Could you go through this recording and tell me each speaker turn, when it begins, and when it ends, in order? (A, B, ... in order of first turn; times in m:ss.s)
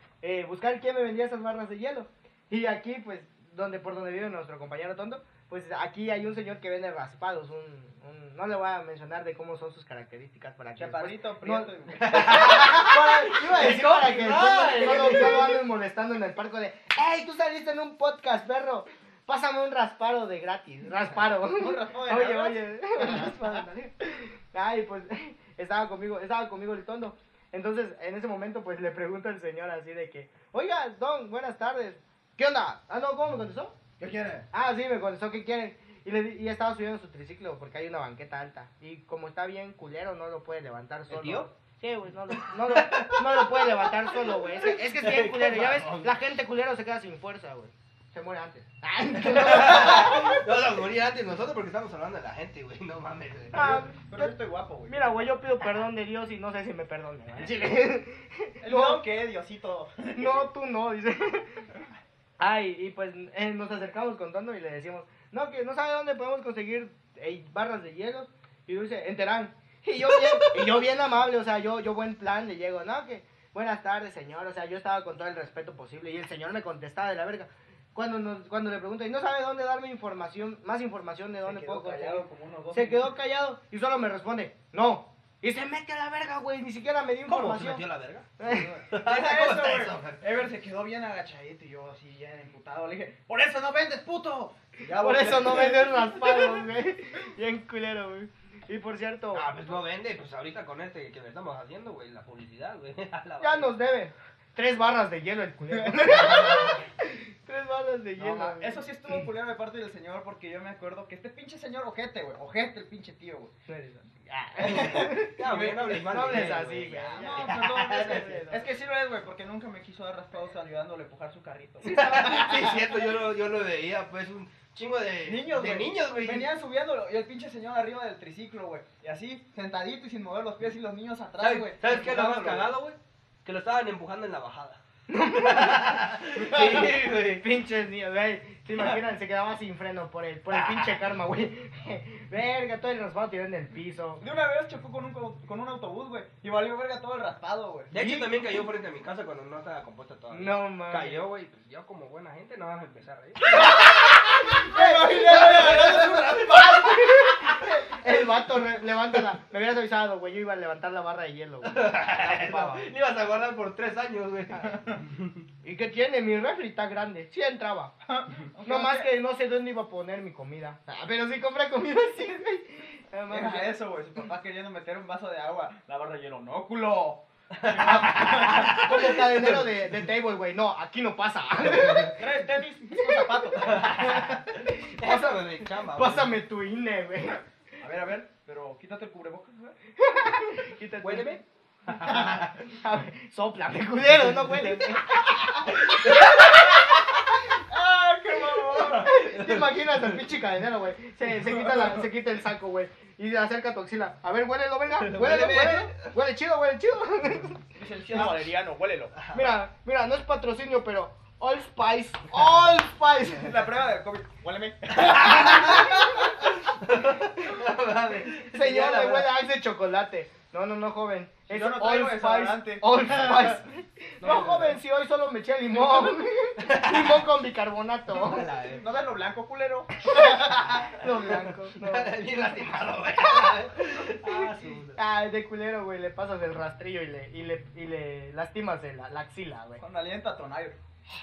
0:00.2-0:33.8 A
0:10.8-0:12.7 B
0:12.0-0:15.6 C
0:21.5-0:23.6 B
0:34.0-0:34.5 B
0:34.5-0:50.4 A
0:41.1-0:41.5 C
0:42.4-0:46.1 C
0:49.2-0:53.8 C
0:53.5-0:54.4 A
0:54.1-0:55.3 B
0:54.9-0:59.0 A
0:58.6-1:00.5 B
1:00.2-1:01.7 A
1:02.4-1:27.8 A
1:21.4-1:23.1 B
1:27.3-1:30.2 C
1:28.4-1:28.7 A
1:28.9-1:36.6 B
1:34.9-1:39.5 A
1:39.3-1:43.7 C
1:43.4-1:49.2 A
1:45.8-1:46.8 B
1:48.2-1:53.5 B
1:53.7-1:58.7 A
1:54.6-1:56.4 B
1:54.6-1:58.4 C
1:57.1-2:03.0 B
2:01.8-2:06.5 C
2:05.2-2:12.7 B
2:11.4-2:14.8 C
2:15.1-2:24.2 A
2:15.3-2:17.5 C
2:16.5-2:16.8 B
2:20.5-2:21.0 C
2:24.2-2:28.0 B
2:27.9-2:33.7 C
2:28.0-2:28.3 A
2:30.3-2:31.2 A
2:33.5-2:36.9 B
2:34.5-2:42.2 A
2:35.0-2:37.7 C
2:41.6-2:45.4 C
2:42.2-2:42.9 B
2:44.6-2:45.0 B
2:45.6-2:48.0 A
2:48.1-2:49.1 B
2:48.6-2:53.8 A
2:53.3-2:58.9 B
2:57.6-2:59.7 C
2:58.3-3:02.3 A
3:02.2-3:04.0 B
3:02.9-3:03.3 A
3:03.6-3:06.4 C
3:03.8-3:07.4 A
3:07.8-3:09.8 B
3:10.0-3:11.4 A
3:11.0-3:12.6 C
3:12.0-3:12.4 B
3:12.1-3:17.1 A
3:14.5-3:14.8 C
3:15.9-3:16.2 C
3:16.2-3:16.6 B
3:17.6-3:19.2 B
3:18.9-3:28.3 A
3:18.9-3:20.2 C
3:21.5-3:22.0 B
3:25.0-3:26.1 C
3:27.8-3:29.2 B
3:29.2-3:29.5 C
3:29.3-3:33.6 A
3:33.4-3:35.8 B
3:35.0-3:39.3 C
3:35.2-3:36.2 A
3:38.4-3:48.5 A
3:41.5-3:43.6 B
3:44.2-3:44.8 C
3:46.6-3:47.2 C
3:48.1-3:48.9 C
3:48.8-3:50.9 B
3:50.0-3:52.2 A
3:51.3-3:55.0 C
3:53.2-3:53.6 A
3:54.2-3:59.8 A
3:59.8-4:00.8 B